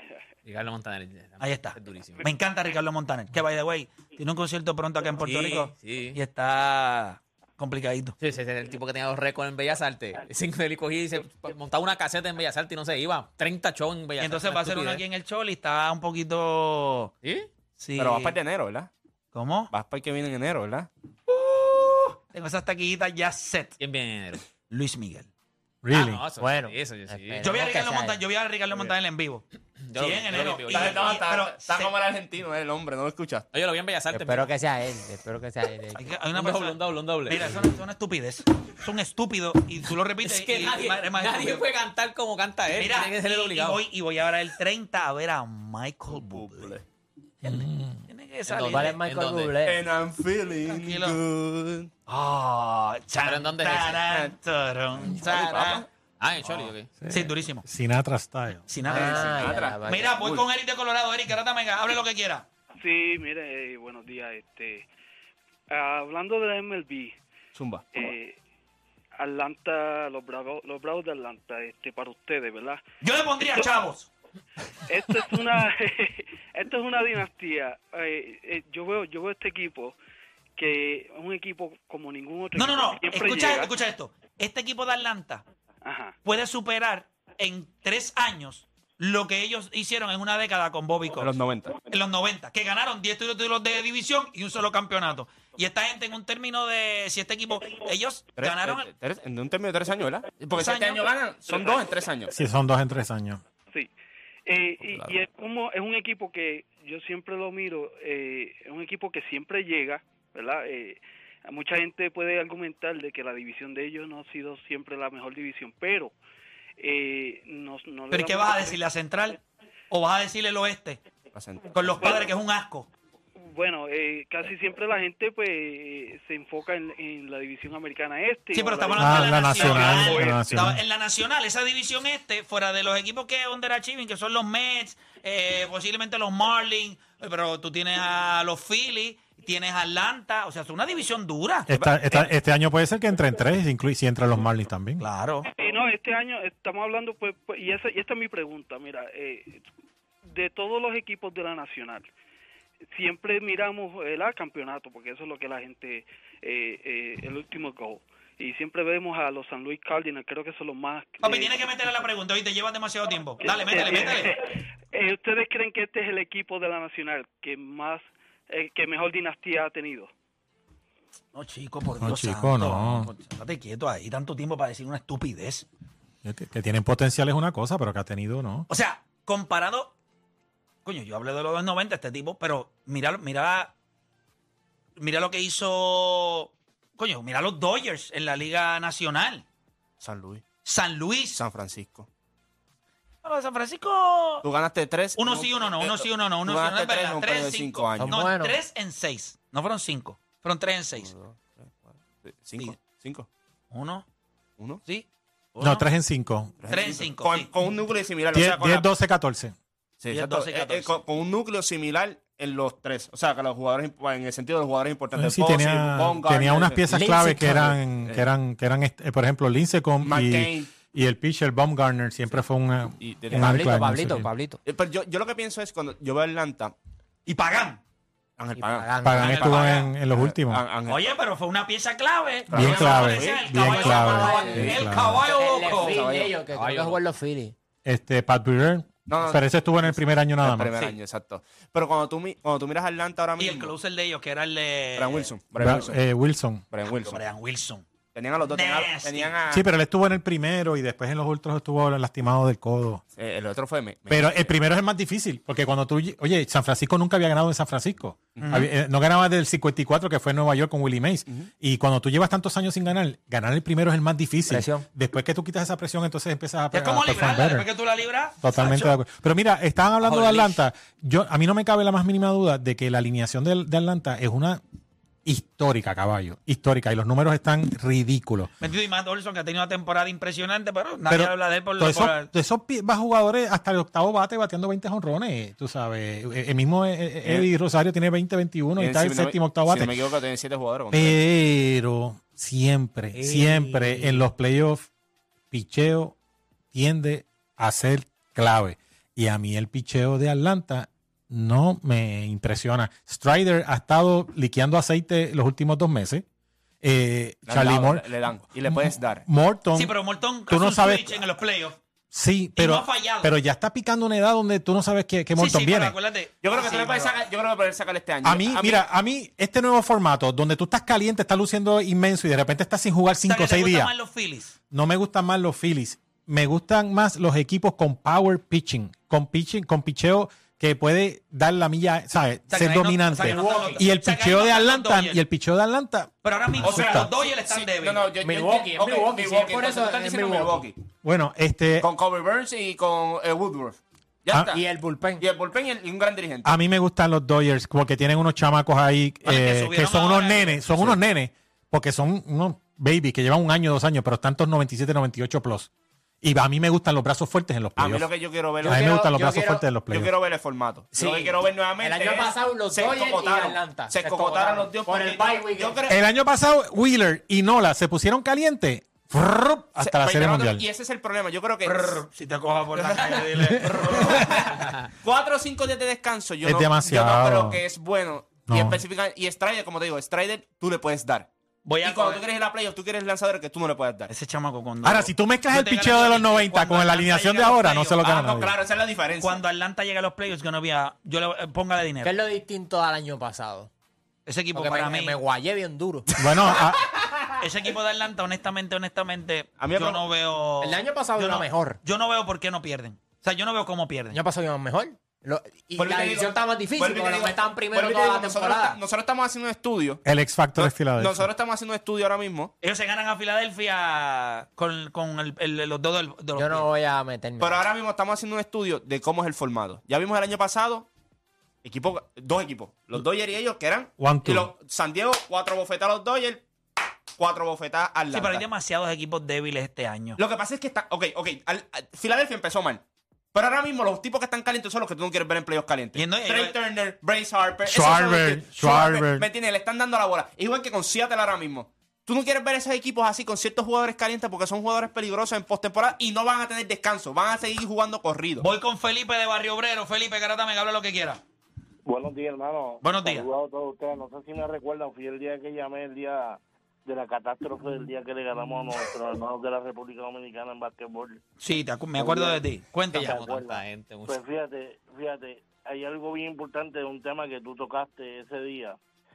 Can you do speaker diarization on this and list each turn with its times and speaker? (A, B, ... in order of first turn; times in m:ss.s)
0:00.4-0:02.2 A
0:01.4-0:08.2 B
0:05.2-0:06.2 A
0:08.2-0:15.0 A
0:14.2-0:17.1 B
0:17.2-0:17.5 A
0:17.8-0:18.4 B
0:18.0-0:18.9 C
0:19.3-0:19.7 B
0:19.7-0:20.9 C
0:21.3-0:23.8 B
0:23.8-0:24.4 A
0:24.7-0:25.3 B
0:25.8-0:26.2 D
0:25.9-0:27.5 A
0:26.4-0:28.2 E
0:27.4-0:29.4 B
0:29.9-0:31.1 A
0:30.0-0:31.9 B
0:30.6-0:33.4 C
0:33.5-0:34.5 A
0:34.1-0:36.0 E
0:36.0-0:41.6 B
0:36.3-0:37.7 A
0:40.2-0:43.8 A
0:42.7-0:46.7 B
0:46.1-0:46.8 C
0:47.4-0:49.0 B
0:47.4-0:48.0 D
0:48.5-0:49.6 A
0:48.7-0:49.8 E
0:49.6-0:51.9 C
0:50.6-0:51.2 B
0:52.1-0:55.8 B
0:53.2-0:54.0 A
0:54.1-0:54.3 C
0:55.1-0:55.9 C
0:56.2-0:56.9 A
0:57.0-0:58.6 D
0:57.1-0:57.6 B
0:58.7-1:02.4 B
0:58.9-1:00.1 E
0:58.9-1:00.4 C
1:02.8-1:04.9 F
1:05.7-1:07.1 F
1:07.6-1:07.8 C
1:07.9-1:08.4 F
1:09.2-1:12.8 F
1:13.0-1:14.1 B
1:14.9-1:20.0 F
1:20.6-1:23.7 F
1:22.6-1:25.4 B
1:25.8-1:26.2 F
1:26.2-1:31.3 B
1:31.2-1:31.8 C
1:31.9-1:38.9 B
1:38.4-1:42.3 C
1:40.6-1:41.5 B
1:42.3-1:43.4 D
1:44.4-1:56.1 F
1:44.9-1:45.1 C
1:56.8-1:58.8 F
1:58.1-1:59.4 B
1:59.9-2:01.0 B
2:01.3-2:02.2 C
2:01.7-2:02.9 B
2:03.4-2:10.6 F
2:08.5-2:22.3 B
2:09.0-2:10.8 D
2:21.7-2:25.0 D
2:25.0-2:25.5 B
2:25.4-2:29.6 F
2:30.2-2:32.1 F
2:32.9-2:41.6 F
2:41.2-2:44.4 B
2:43.4-2:50.1 F
2:51.3-2:55.7 B
2:52.0-2:53.1 D
2:56.2-2:58.7 D
2:58.7-2:59.9 B
3:00.8-3:03.7 B
3:05.0-3:09.4 B
3:10.0-3:10.4 C
3:10.6-3:11.4 B
3:11.4-3:12.1 C
3:13.2-3:14.5 B
3:14.4-3:18.3 C
3:15.2-3:21.1 B
3:18.0-3:18.6 E
3:21.0-3:23.3 C
3:23.7-3:24.1 B
3:24.8-3:25.9 B
3:25.6-3:26.5 D
3:26.6-3:28.9 C
3:26.7-3:27.5 B
3:28.3-3:29.6 D
3:30.0-3:37.0 C
3:30.1-3:30.9 B
3:35.1-3:44.3 D
3:36.9-3:37.8 E
3:40.0-3:40.7 C
3:43.0-3:43.8 C
3:43.3-3:44.6 E
3:44.6-3:46.7 C
3:47.2-3:47.8 B
3:48.4-3:51.2 C
3:48.6-3:49.4 E
3:49.0-3:50.6 D
3:49.2-3:49.9 B
3:50.9-3:56.0 B
3:52.5-3:55.1 C
3:52.5-3:55.2 D
3:53.6-3:57.5 E
3:55.7-3:56.4 C
3:56.5-3:57.0 A
3:57.8-4:00.7 D
3:59.1-4:03.7 C
4:03.4-4:05.3 B
4:05.0-4:06.0 C
4:05.6-4:06.6 D
4:06.7-4:07.2 C
4:06.9-4:07.9 B
4:08.1-4:09.6 C
4:08.4-4:09.4 B
4:09.5-4:13.0 D
4:13.2-4:14.5 C
4:14.1-4:27.7 D
4:18.4-4:18.7 B
4:24.5-4:24.9 E
4:26.7-4:29.0 B
4:28.4-4:34.6 D
4:30.1-4:30.4 A
4:35.2-4:38.5 D
4:38.6-4:42.3 B
4:41.1-4:50.0 D
4:48.8-4:51.2 C
4:50.9-4:54.9 D
4:53.1-4:54.2 E
4:55.5-4:56.2 D
4:56.7-5:06.2 D
5:06.8-5:09.9 D
5:07.4-5:09.2 C
5:09.7-5:11.8 B
5:10.5-5:11.2 D
5:12.1-5:15.9 D
5:12.6-5:13.3 B
5:15.4-5:17.2 B
5:16.4-5:18.8 C
5:18.2-5:23.9 D
5:23.2-5:24.6 B
5:24.7-5:37.1 D
5:32.5-5:35.2 B
5:33.2-5:33.8 E
5:36.2-5:38.1 B
5:36.6-5:40.8 C
5:38.2-5:40.6 E
5:41.0-5:41.9 D
5:41.8-5:44.6 C
5:44.5-5:45.2 E
5:45.2-5:46.6 C
5:46.4-5:55.7 D
5:49.2-5:50.6 B
5:56.2-5:58.1 D
5:57.8-5:58.9 C
5:58.6-5:59.6 E
5:58.6-6:00.1 D
5:59.9-6:06.0 C
6:00.9-6:05.8 E
6:05.9-6:10.6 D
6:09.8-6:12.0 C
6:11.6-6:14.7 B
6:12.7-6:21.3 C
6:13.4-6:14.3 D
6:16.4-6:17.6 D
6:18.5-6:18.8 D
6:21.6-6:22.2 B
6:21.8-6:24.1 C
6:24.1-6:28.1 B
6:24.8-6:28.6 D
6:28.0-6:29.4 C
6:29.2-6:32.2 B
6:32.0-6:33.7 E
6:34.2-6:35.2 B
6:34.5-6:36.6 E
6:36.2-6:36.8 D
6:37.4-6:44.2 B
6:39.6-6:40.1 C
6:40.6-6:41.8 E
6:44.1-6:48.8 E
6:45.8-6:50.0 C
6:50.0-6:51.3 D
6:50.6-6:52.5 C
6:52.6-6:56.6 B
6:56.4-6:57.6 E
6:57.4-7:00.9 C
7:01.6-7:06.4 C
7:04.0-7:04.5 D
7:07.2-7:08.4 C
7:08.1-7:10.2 B
7:10.2-7:12.8 C
7:13.3-7:28.4 C
7:15.9-7:16.6 B
7:17.6-7:19.2 D
7:28.4-7:31.2 B
7:31.9-7:41.2 G
7:32.8-7:33.2 B
7:41.4-7:43.2 B
7:41.9-7:42.4 G
7:42.9-7:44.2 A
7:43.0-7:48.8 G